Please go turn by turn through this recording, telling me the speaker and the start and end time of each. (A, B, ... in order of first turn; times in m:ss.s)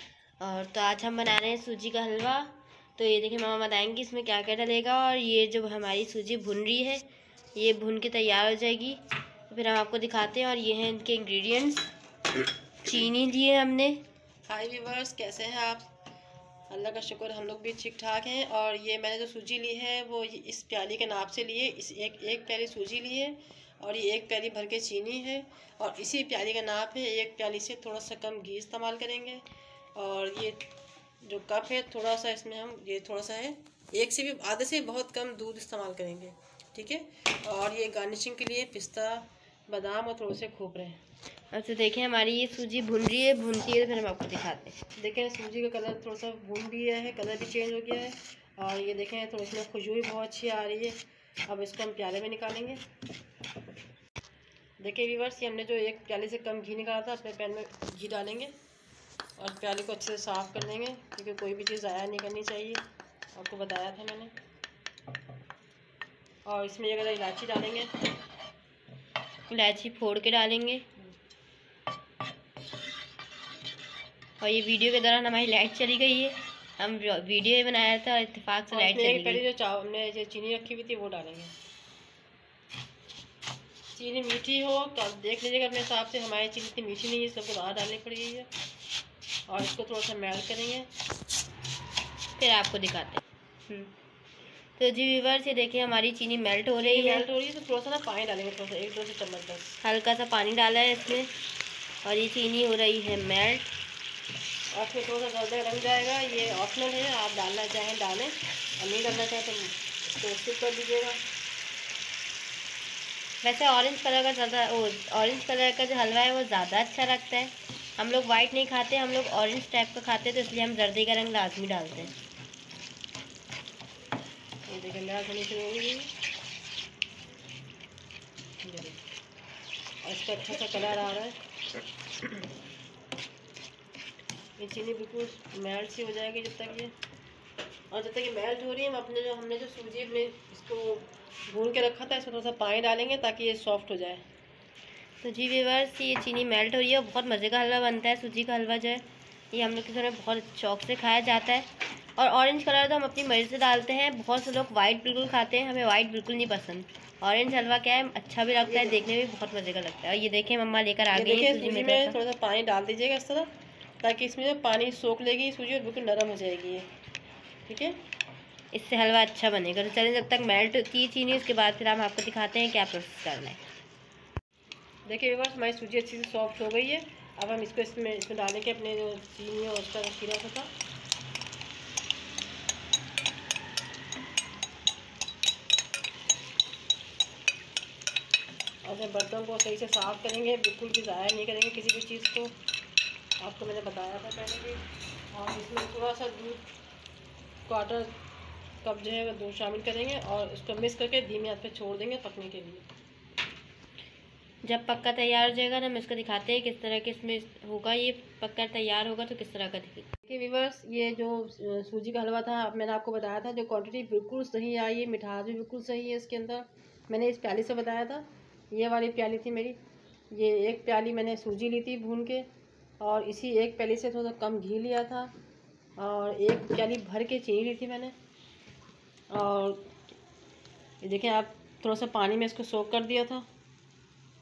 0:00.4-0:07.0 A
0:07.5-0:11.9 A
0:12.8-0:14.0 A
0:14.5-0:15.9 B
0:16.7-0:29.4 B
0:29.9-0:30.6 B
0:31.2-0:41.0 B
0:41.5-0:44.8 A
0:45.0-0:52.8 B
0:54.8-0:58.5 B
0:59.4-1:02.8 B
1:03.3-1:04.3 B
1:06.4-1:07.9 B
1:09.5-1:10.8 A
1:14.4-1:19.4 A
1:18.7-1:21.5 B
1:23.9-1:28.5 B
1:29.5-1:30.9 B
1:32.4-1:33.9 A
1:34.8-1:37.3 A
1:36.8-1:39.8 B
1:39.8-1:41.3 A
1:42.0-1:43.7 A
1:44.7-1:51.2 B
1:53.4-2:02.1 A
2:04.7-2:06.1 B
2:08.6-2:09.0 B
2:10.0-2:11.4 B
2:14.6-2:16.9 B
2:17.9-2:24.2 B
2:25.2-2:42.2 A
2:38.6-2:39.0 B
2:41.1-2:43.5 B
2:44.0-2:46.9 B
2:47.7-2:48.0 B
2:48.7-2:53.6 A
2:55.1-3:00.7 B
3:08.8-3:12.5 B
3:13.4-3:16.6 B
3:17.7-3:18.1 B
3:18.8-3:22.8 B
3:24.6-3:30.1 A
3:30.2-3:39.8 B
3:40.3-3:42.4 B
3:43.0-3:45.3 B
3:46.0-3:48.1 B
3:49.3-3:49.8 B
3:51.0-3:53.5 B